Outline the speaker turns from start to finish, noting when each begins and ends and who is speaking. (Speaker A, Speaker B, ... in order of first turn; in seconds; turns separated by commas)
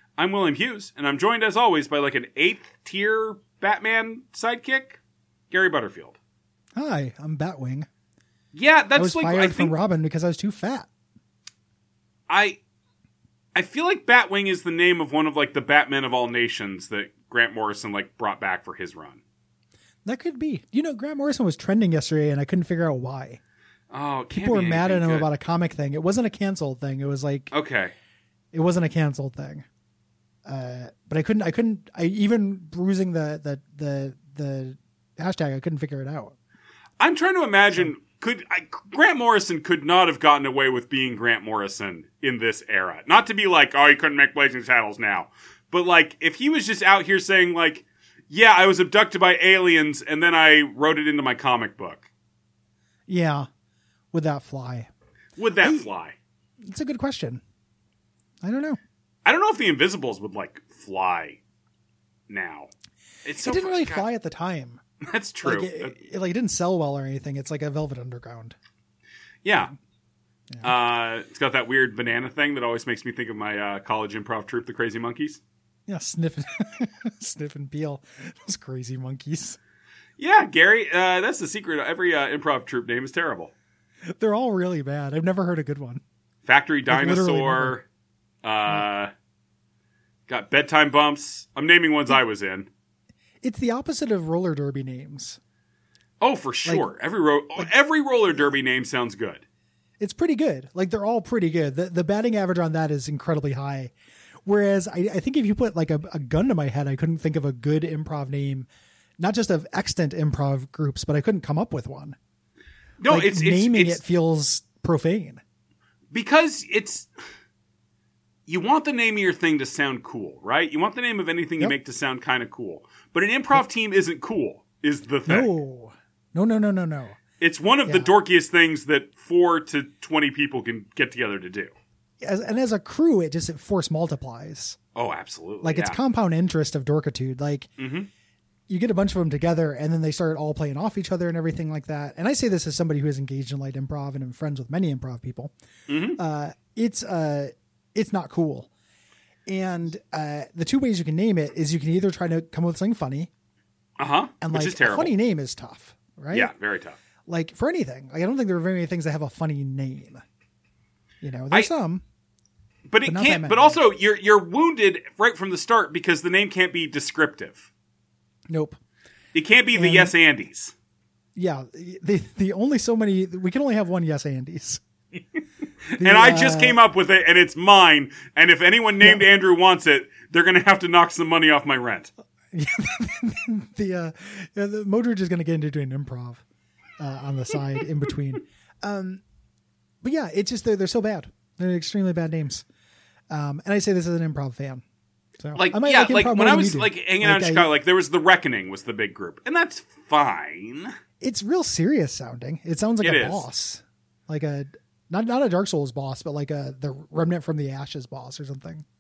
Speaker A: 0.2-5.0, Speaker A: 5.5-6.2, Speaker B: 6.8-7.9, Speaker A: 8.5-9.8, Speaker B: 9.0-10.9, Speaker A: 12.3-12.6, Speaker A: 13.6-19.2, Speaker B: 20.1-23.4, Speaker A: 23.9-25.3, Speaker B: 24.3-27.5, Speaker A: 27.5-27.9, Speaker B: 28.5-29.6, Speaker B: 30.5-36.4, Speaker A: 37.0-52.1, Speaker B: 53.1-53.5, Speaker B: 54.1-54.9, Speaker A: 55.4-56.2, Speaker B: 55.6-55.9, Speaker B: 56.7-57.4, Speaker B: 58.4-58.8, Speaker A: 59.2-61.4, Speaker A: 62.3-62.7, Speaker A: 63.2-64.1, Speaker B: 63.4-64.8, Speaker A: 65.1-66.0, Speaker B: 65.4-68.6, Speaker A: 69.4-69.7, Speaker A: 70.6-75.4, Speaker B: 75.9-79.6, Speaker A: 80.2-83.5, Speaker B: 84.2-86.0, Speaker A: 86.5-87.8, Speaker B: 86.9-87.8, Speaker A: 88.4-89.1, Speaker A: 90.3-92.7, Speaker B: 93.4-95.4, Speaker A: 96.2-99.4, Speaker B: 100.0-103.9, Speaker B: 104.5-108.7, Speaker B: 109.2-112.2, Speaker A: 113.0-114.0, Speaker B: 113.1-115.4, Speaker A: 116.1-117.1, Speaker A: 118.5-125.5, Speaker B: 125.3-127.2, Speaker A: 127.4-131.7, Speaker B: 127.9-128.1, Speaker B: 132.2-134.8, Speaker A: 134.9-136.0, Speaker B: 135.6-137.7, Speaker A: 137.8-138.1, Speaker B: 138.7-145.5, Speaker A: 145.9-146.2, Speaker B: 146.2-148.7, Speaker B: 149.5-153.3, Speaker A: 154.0-155.1, Speaker B: 154.4-156.5, Speaker A: 156.3-157.0, Speaker B: 157.3-160.2, Speaker B: 161.2-162.0, Speaker A: 162.9-167.7, Speaker B: 163.1-163.8, Speaker B: 168.5-168.8, Speaker A: 169.3-170.7, Speaker B: 169.7-170.1, Speaker B: 171.4-174.8, Speaker A: 175.9-182.1, Speaker B: 176.0-176.8, Speaker B: 179.0-179.3, Speaker B: 182.5-186.4, Speaker B: 187.0-189.2, Speaker B: 190.0-192.6, Speaker B: 193.3-194.8, Speaker B: 195.4-197.7, Speaker A: 195.6-200.9, Speaker B: 201.2-208.8, Speaker A: 203.0-203.5